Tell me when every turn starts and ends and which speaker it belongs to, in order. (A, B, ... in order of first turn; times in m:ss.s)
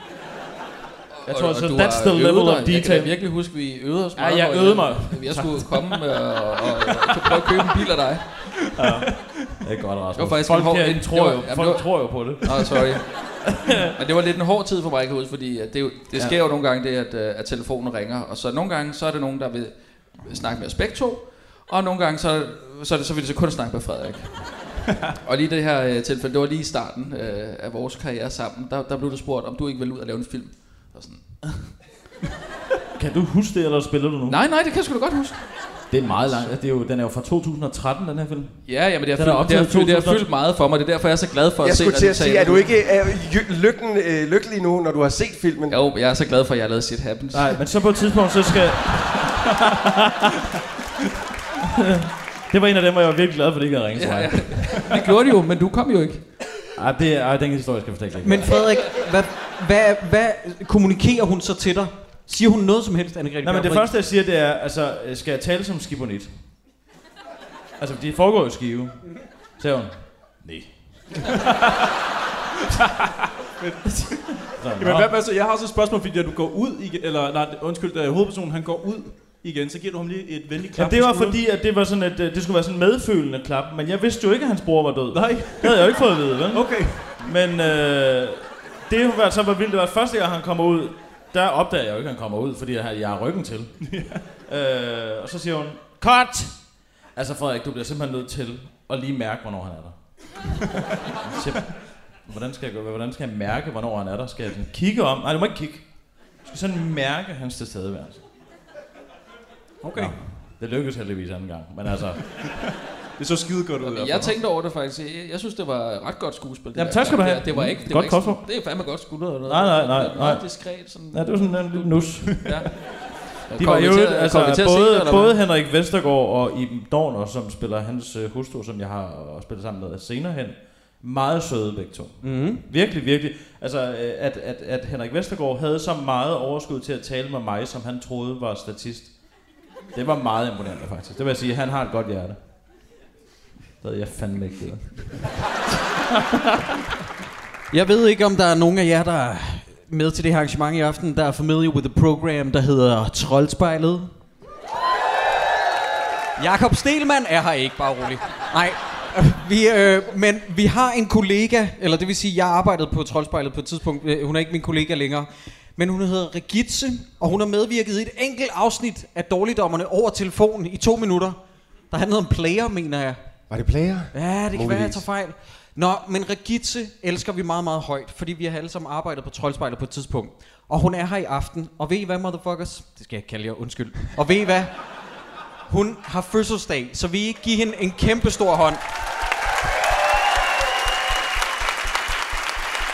0:01.1-0:08.7 A
0:01.2-0:03.2 B
0:04.1-0:06.2 B
0:06.9-0:07.4 B
0:08.8-0:13.9 B
0:10.2-0:31.8 A
0:16.1-0:16.4 B
0:33.0-0:34.4 B
0:34.3-0:36.5 A
0:35.9-0:40.3 B
0:38.6-0:42.7 A
0:41.6-0:45.8 C
0:45.7-0:47.8 A
0:47.3-0:50.3 B
0:51.8-0:54.9 B
0:53.9-0:56.3 A
0:56.7-0:58.6 B
0:58.2-1:03.9 D
1:03.4-1:06.3 B
1:07.8-1:11.1 B
1:11.2-1:11.9 E
1:13.6-1:21.4 E
1:13.9-1:15.1 B
1:20.7-1:40.0 B
1:25.1-1:26.0 E
1:26.5-1:27.2 E
1:33.8-1:34.2 E
1:41.2-1:45.9 B
1:46.4-1:48.2 B
1:49.8-1:50.1 E
1:49.9-1:52.2 B
1:53.2-1:54.4 E
1:53.8-2:05.4 A
1:56.7-1:58.7 B
1:59.4-2:02.5 B
2:02.2-2:02.5 E
2:03.5-2:19.1 B
2:12.2-2:12.6 D
2:19.9-2:22.4 B
2:23.8-2:25.2 B
2:26.2-2:26.5 B
2:27.7-2:34.1 D
2:36.4-2:51.4 D
2:51.9-2:53.2 D
2:53.5-2:55.0 C
2:54.1-3:04.7 D
3:05.7-3:08.8 D